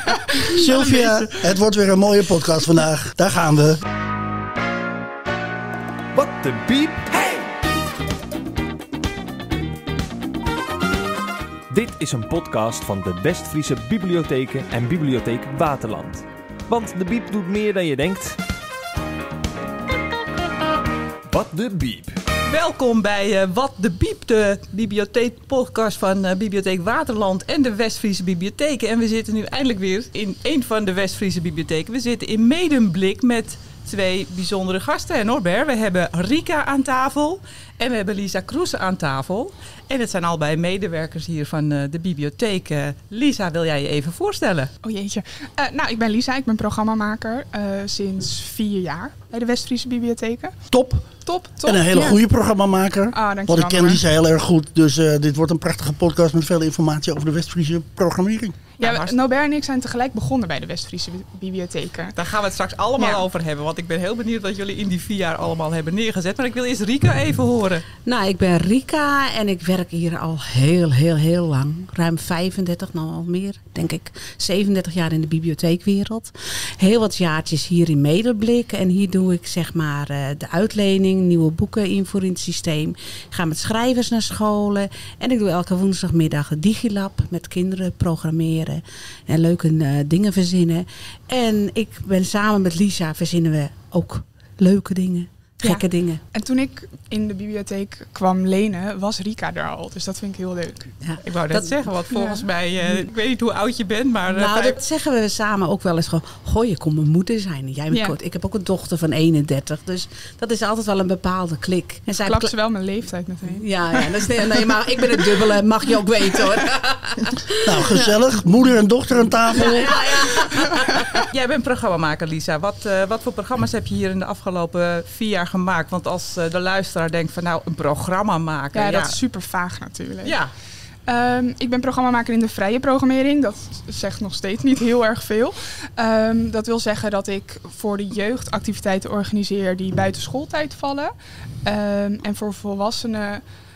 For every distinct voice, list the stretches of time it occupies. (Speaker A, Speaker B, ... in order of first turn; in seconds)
Speaker A: 0.4-3.8, 50.7-51.1, 51.6-58.6, 117.6-120.0
Speaker B: 0.7-1.1, 22.5-44.7, 58.8-59.2, 62.2-67.8, 101.2-104.8, 120.4-129.2, 130.2-130.5
Speaker C: 6.1-7.5, 11.7-18.4, 21.3-22.1
Speaker D: 44.8-50.6, 51.2-52.1, 53.1-54.0, 58.8-62.2, 63.0-63.2, 95.6-100.9, 102.1-102.4, 112.2-114.4, 128.7-130.4, 131.1-143.4
Speaker E: 68.0-96.2, 101.0-101.8, 104.3-112.5, 113.5-118.1, 119.5-120.9